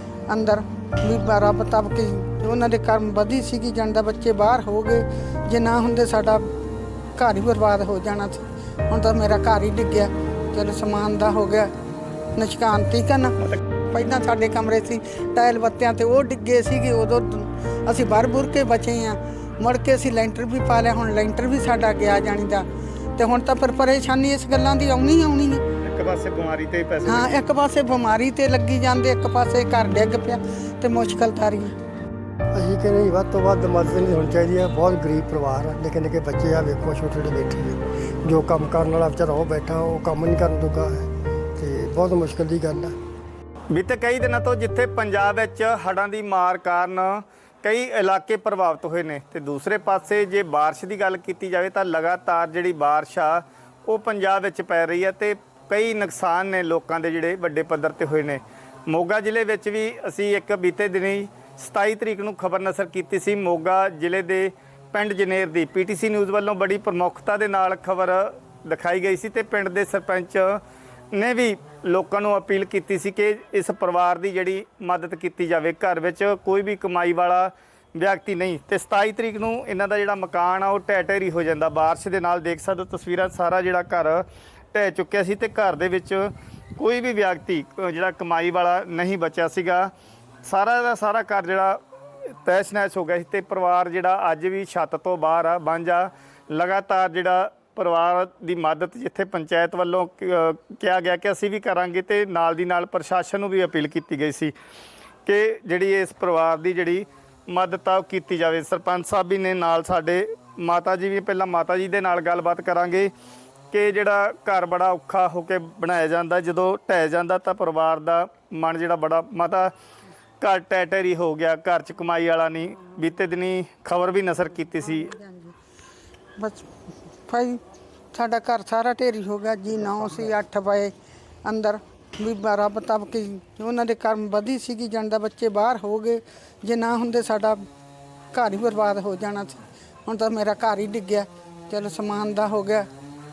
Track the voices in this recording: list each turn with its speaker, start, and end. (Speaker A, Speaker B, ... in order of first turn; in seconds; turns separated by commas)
Speaker A: 0.3-6.5, Speaker A: 7.2-11.7, Speaker A: 12.3-13.3, Speaker A: 13.9-25.6, Speaker B: 25.8-27.4, Speaker A: 27.1-31.7, Speaker C: 32.5-42.9, Speaker B: 43.7-70.6, Speaker B: 71.1-89.9, Speaker B: 90.4-91.8, Speaker B: 92.4-104.5, Speaker B: 105.2-113.1, Speaker B: 113.7-119.7, Speaker B: 120.4-125.1, Speaker A: 124.8-125.5, Speaker A: 126.4-126.7, Speaker A: 127.3-127.6, Speaker A: 128.1-130.9, Speaker A: 131.4-137.6, Speaker A: 138.3-142.8